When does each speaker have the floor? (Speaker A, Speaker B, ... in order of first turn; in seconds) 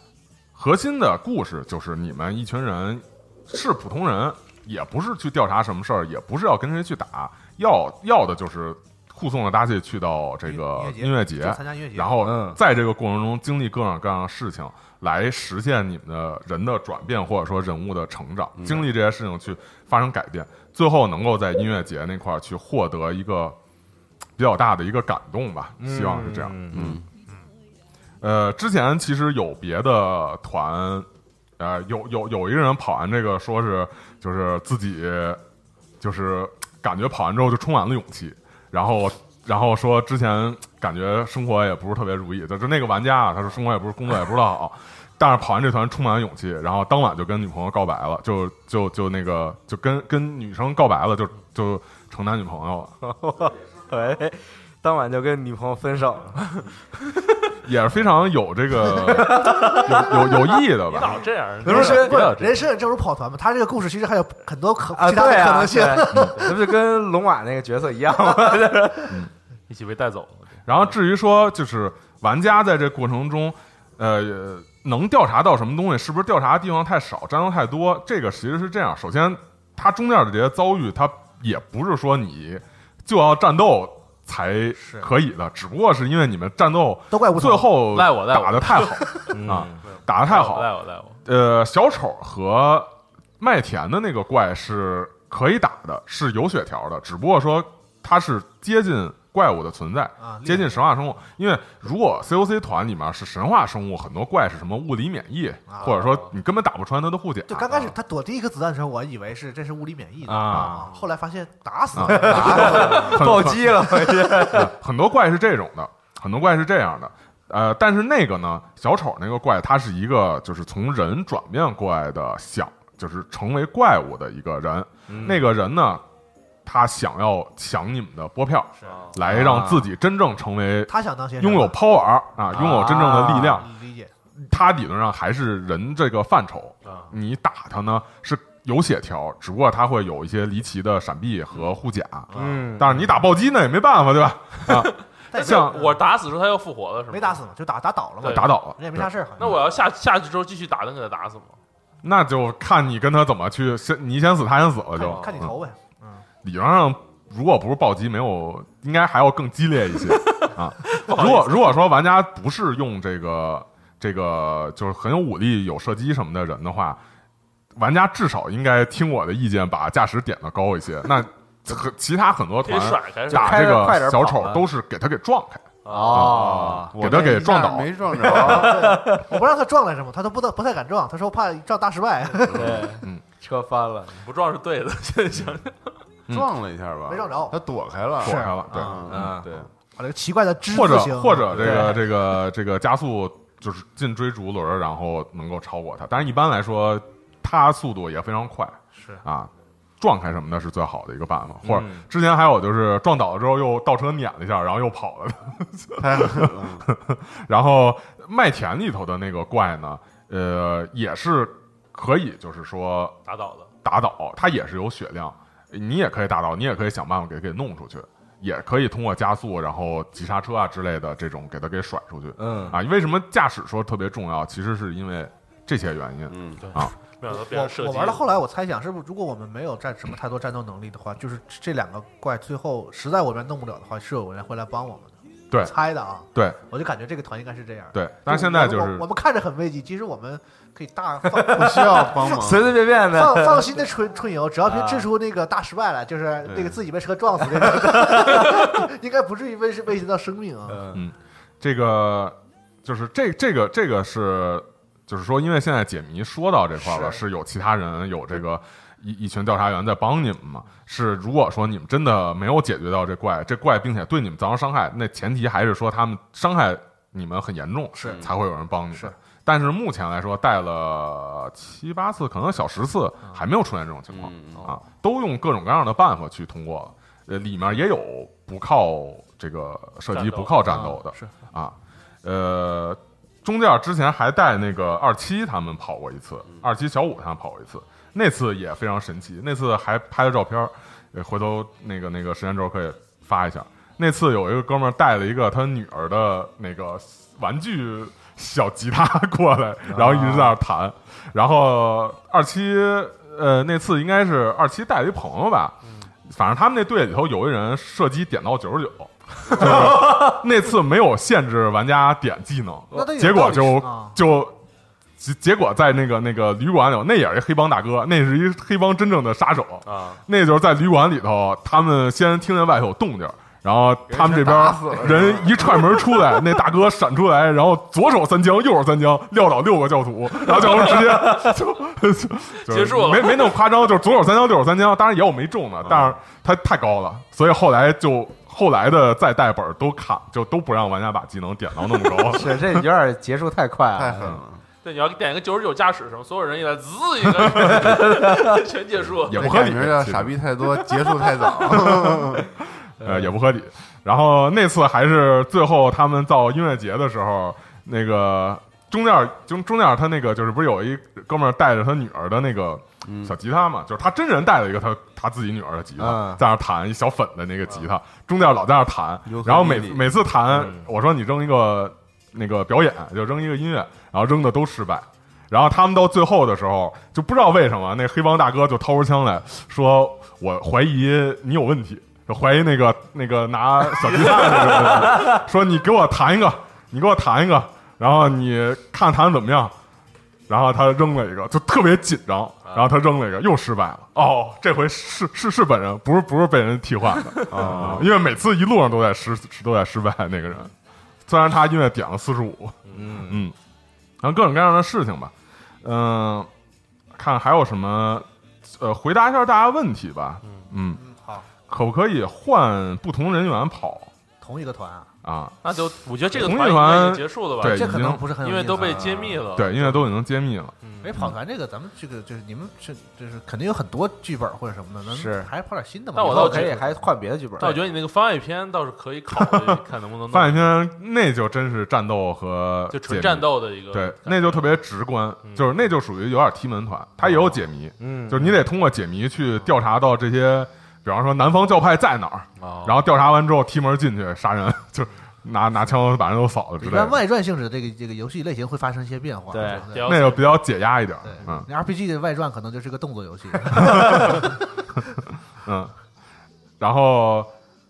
Speaker A: 0.5-23.6, 24.4-26.9, 28.2-31.1, 31.6-35.4, 36.0-52.9, 57.6-61.2, 66.1-66.4, 70.7-90.7, 91.2-107.8, 110.4-110.7, 111.9-126.0, 126.6-133.7, 134.4-145.8, 148.2-149.6, 152.0-155.5, 156.4-167.0, 167.8-177.9, 188.2-189.0, 190.7-199.5, 200.0-213.2, 213.8-226.9, 236.3-236.6, 237.9-239.0, 250.9-314.6, 315.2-342.8, 349.2-350.4, 351.7-352.4, 353.0-389.7, 390.5-400.7, 401.3-403.5, 404.2-405.3, 405.8-406.5, 407.1-411.0, 411.6-414.1, 415.2-415.7, 416.3-418.3, 419.5-421.4, 429.3-447.2, 450.0-451.7, 453.7-454.5, 455.6-455.9, 456.8-457.5
Speaker B: 10.4-12.2, 61.6-66.7, 84.8-85.1, 87.1-87.8, 100.2-100.8, 105.7-106.0, 107.5-113.2, 128.8-129.2, 130.9-131.7, 133.6-134.1, 142.3-142.6, 145.3-146.0, 147.1-149.6, 154.9-156.2, 177.1-177.5, 178.1-182.9, 187.1-187.6, 188.2-189.0, 189.9-191.9, 198.9-199.2, 227.3-250.8, 256.8-257.2, 267.9-268.3, 280.6-281.3, 312.9-314.2, 410.9-411.5, 414.4-415.1, 417.6-419.5, 421.0-426.9, 446.8-450.1, 451.2-454.8
Speaker C: 12.2-12.6, 25.8-27.0, 53.0-56.5, 58.9-60.4, 61.6-62.3, 64.9-69.2, 89.3-89.8, 110.2-110.9, 112.0-114.7, 125.1-125.4, 129.2-129.8, 132.5-133.6, 142.3-143.1, 173.3-174.6, 175.9-177.0, 178.3-179.2, 182.5-184.2, 189.1-189.5, 191.6-192.1, 201.6-202.0, 222.4-222.8, 241.3-243.9, 244.7-245.1, 247.6-248.5, 250.7-251.0, 299.9-300.6, 309.6-310.4, 324.1-325.4, 342.2-344.4, 347.5-348.6, 353.0-353.3, 366.0-366.4, 370.5-370.8, 397.6-398.0, 402.9-403.5, 425.1-425.5, 426.2-427.9, 438.0-438.6, 449.5-449.9
Speaker D: 18.6-18.9, 26.7-27.0, 112.3-112.8, 176.1-179.0, 182.5-182.9, 186.3-189.7, 206.0-206.9, 226.3-226.6, 241.5-242.8, 246.4-246.8, 268.0-268.3, 274.1-274.8, 324.1-325.9, 335.8-336.2, 343.9-344.6, 349.3-352.5, 363.0-363.4, 369.2-370.1, 397.5-398.1
Speaker E: 60.8-62.7, 69.7-70.9, 87.9-91.2, 105.8-106.3, 128.8-129.2, 136.8-137.1, 144.7-147.4, 148.2-148.5, 149.4-151.6, 154.9-155.4, 160.2-161.8, 172.6-173.8, 175.8-176.3, 184.2-185.9, 213.2-213.7, 226.6-228.2, 280.1-280.6, 305.8-306.1, 319.9-320.2, 332.7-333.6, 344.8-349.7, 384.3-385.3, 397.1-397.7, 402.9-403.2, 410.4-410.7, 415.6-420.0, 420.8-421.1, 426.1-426.9, 427.6-430.7, 432.9-434.8, 437.2-437.6, 442.6-443.0, 449.9-450.6